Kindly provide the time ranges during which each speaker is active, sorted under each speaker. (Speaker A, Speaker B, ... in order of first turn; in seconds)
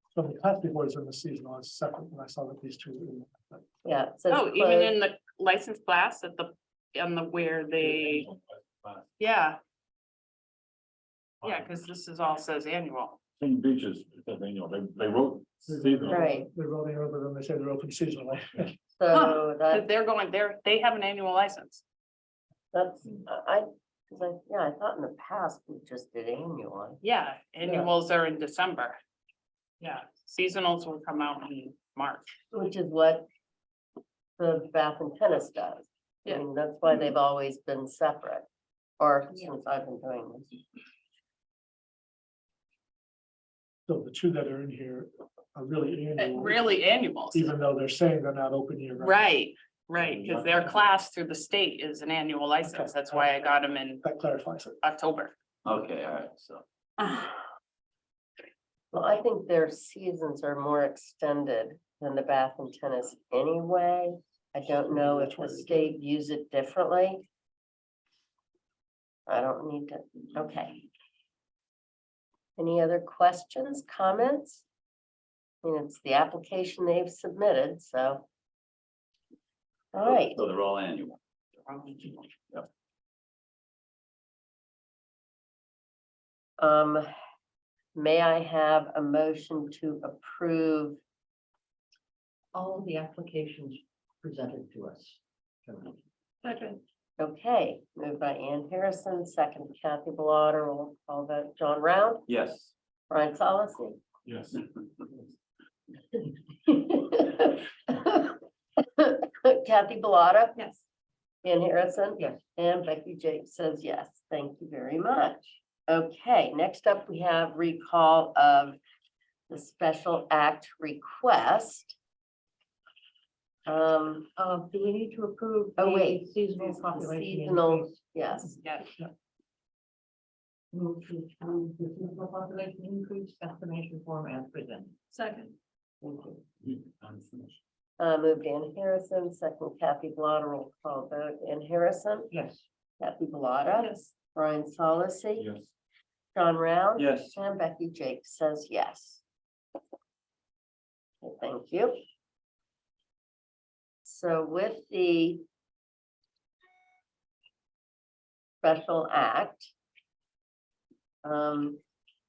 Speaker A: 0.1-3.6, 15.7-18.7, 43.9-46.7, 47.3-49.4, 50.4-50.7, 52.6-53.3, 54.0-54.7, 64.9-65.5
Speaker B: 3.8-4.9, 16.1-16.5, 18.9-19.8, 22.7-27.0, 27.6-27.9, 32.5-33.3, 34.4-38.5, 39.0-40.5, 58.9-67.2, 69.3-70.8, 72.6-74.6, 75.6-78.2, 79.9-80.4, 86.6-87.1, 87.9-91.0, 97.2-102.2, 103.1-104.0, 106.7-108.4, 109.0-110.6, 111.4-118.8, 119.5-122.0, 123.7-124.3, 125.8-128.6, 138.0-142.3, 143.0-145.5, 146.3-149.2, 151.2-152.0, 154.0-155.4, 158.6-159.7, 161.2-161.8
Speaker C: 4.3-8.3, 9.2-9.6, 11.4-13.2, 19.1-21.8, 27.0-29.0, 29.8-32.3, 46.2-47.5, 49.0-54.0, 54.8-55.3, 57.0-57.3, 81.7-82.2, 110.5-110.8, 128.6-128.9, 135.1-135.5, 143.8-144.1
Speaker D: 13.4-16.4, 50.1-50.9, 136.7-137.5, 145.4-145.6
Speaker E: 55.6-56.6, 80.0-81.2, 102.3-102.7, 147.0-147.4
Speaker F: 92.5-96.8, 124.4-128.1, 130.7-135.0, 136.0-136.4, 142.3-142.6